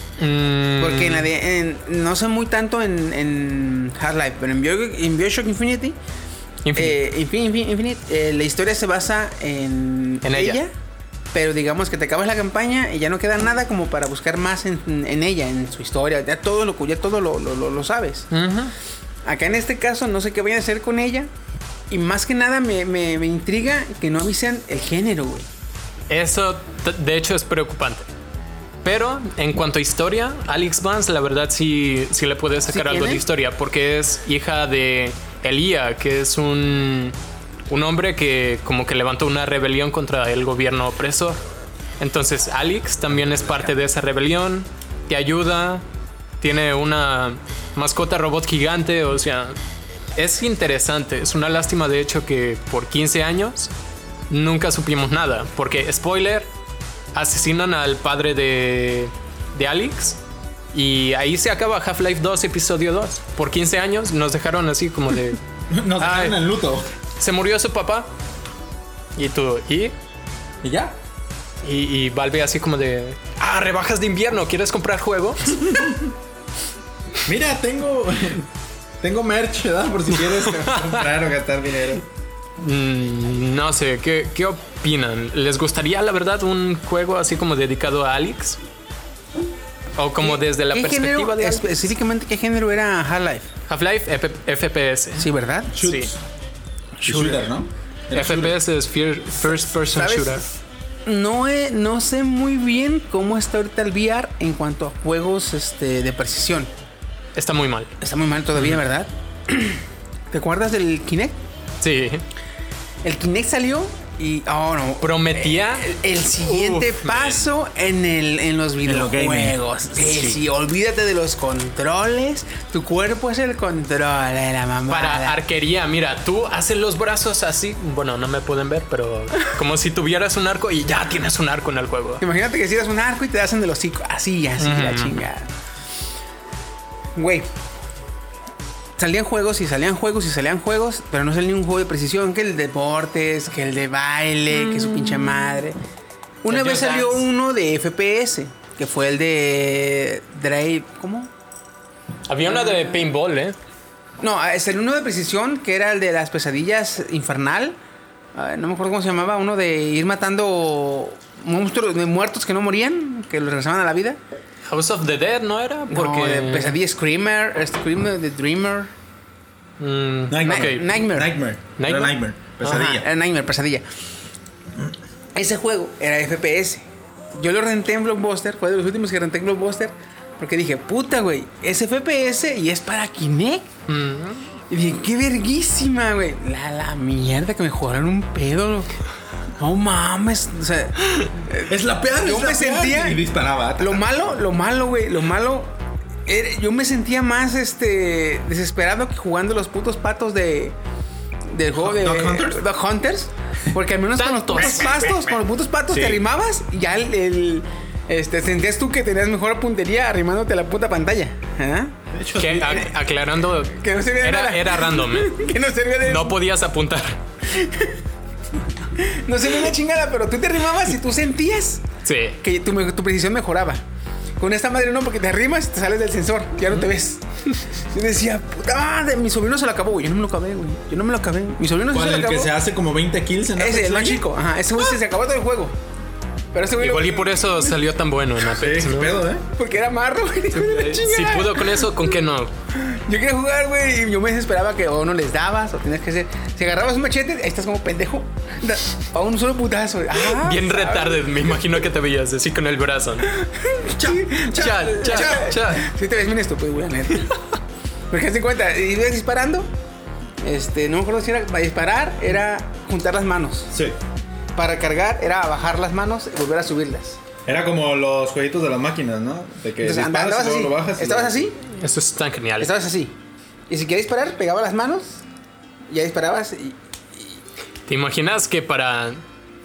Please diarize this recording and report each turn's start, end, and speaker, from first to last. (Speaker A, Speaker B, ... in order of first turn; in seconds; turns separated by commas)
Speaker A: 0.2-1.3, Speaker B: 0.8-6.0, Speaker A: 6.6-7.0, Speaker B: 6.7-10.7, Speaker A: 10.2-10.6, Speaker B: 11.3-18.3, Speaker A: 18.3-18.7, Speaker B: 19.2-21.3, Speaker B: 21.9-25.5, Speaker A: 26.1-28.1, Speaker A: 28.8-37.1, Speaker B: 32.7-33.2, Speaker A: 37.7-41.4, Speaker A: 42.0-45.8, Speaker A: 46.4-49.6, Speaker A: 50.1-53.7, Speaker A: 54.3-56.5, Speaker A: 57.1-60.2, Speaker A: 60.7-65.4, Speaker C: 65.7-66.9, Speaker A: 66.0-66.4, Speaker A: 67.2-68.1, Speaker A: 69.2-69.9, Speaker C: 70.6-70.9, Speaker A: 71.6-75.7, Speaker C: 77.2-78.5, Speaker C: 79.0-82.0, Speaker A: 80.7-80.9, Speaker A: 82.6-88.6, Speaker A: 90.0-91.7, Speaker B: 90.2-93.5, Speaker A: 93.7-96.1, Speaker B: 95.2-95.7, Speaker C: 95.7-96.2, Speaker C: 97.0-98.6, Speaker A: 97.1-97.4, Speaker B: 97.1-97.3, Speaker A: 98.1-100.4, Speaker B: 99.4-100.5, Speaker B: 101.0-106.7, Speaker A: 107.3-107.9, Speaker B: 108.0-111.3, Speaker A: 108.5-108.8, Speaker A: 111.8-112.2, Speaker B: 113.0-125.4, Speaker A: 115.0-117.5, Speaker C: 118.8-119.5, Speaker A: 124.9-132.2, Speaker B: 132.2-135.5, Speaker A: 134.6-135.2, Speaker B: 137.2-137.5, Speaker B: 139.0-145.8, Speaker B: 146.4-151.3, Speaker A: 146.5-147.2, Speaker A: 152.3-153.6, Speaker B: 152.5-152.9, Speaker B: 154.2-157.8, Speaker B: 158.3-164.2, Speaker A: 164.7-166.8, Speaker B: 165.9-168.9, Speaker A: 169.8-170.9, Speaker C: 170.3-173.1, Speaker B: 170.4-171.3, Speaker A: 171.8-172.9, Speaker B: 172.6-173.8, Speaker B: 175.3-176.8, Speaker B: 177.4-183.7, Speaker A: 183.9-184.5, Speaker B: 184.7-188.9, Speaker B: 189.6-195.7, Speaker C: 191.7-194.1, Speaker B: 196.2-200.8, Speaker B: 201.5-211.9, Speaker C: 201.8-202.6, Speaker A: 204.2-205.2, Speaker C: 205.9-206.2, Speaker C: 212.1-212.9, Speaker A: 212.4-215.4, Speaker B: 213.7-216.4, Speaker A: 216.0-217.2, Speaker B: 217.5-218.0, Speaker B: 218.9-221.8, Speaker A: 222.0-222.4, Speaker B: 222.4-223.8, Speaker B: 224.4-232.5, Speaker C: 231.9-234.2, Speaker B: 233.5-235.8, Speaker B: 236.5-237.7, Speaker A: 236.8-239.2, Speaker C: 238.4-239.4, Speaker B: 239.5-241.9, Speaker A: 240.5-242.5, Speaker B: 242.7-251.4, Speaker A: 250.2-253.4, Speaker B: 253.3-257.3, Speaker C: 253.9-255.5, Speaker A: 254.5-255.9, Speaker B: 258.1-259.7, Speaker B: 260.4-263.7, Speaker C: 263.7-264.0, Speaker B: 264.5-267.2, Speaker C: 267.4-271.5, Speaker B: 269.8-271.6, Speaker A: 271.7-272.7, Speaker B: 272.6-273.1, Speaker B: 273.7-275.2, Speaker B: 275.9-277.4, Speaker A: 277.9-279.2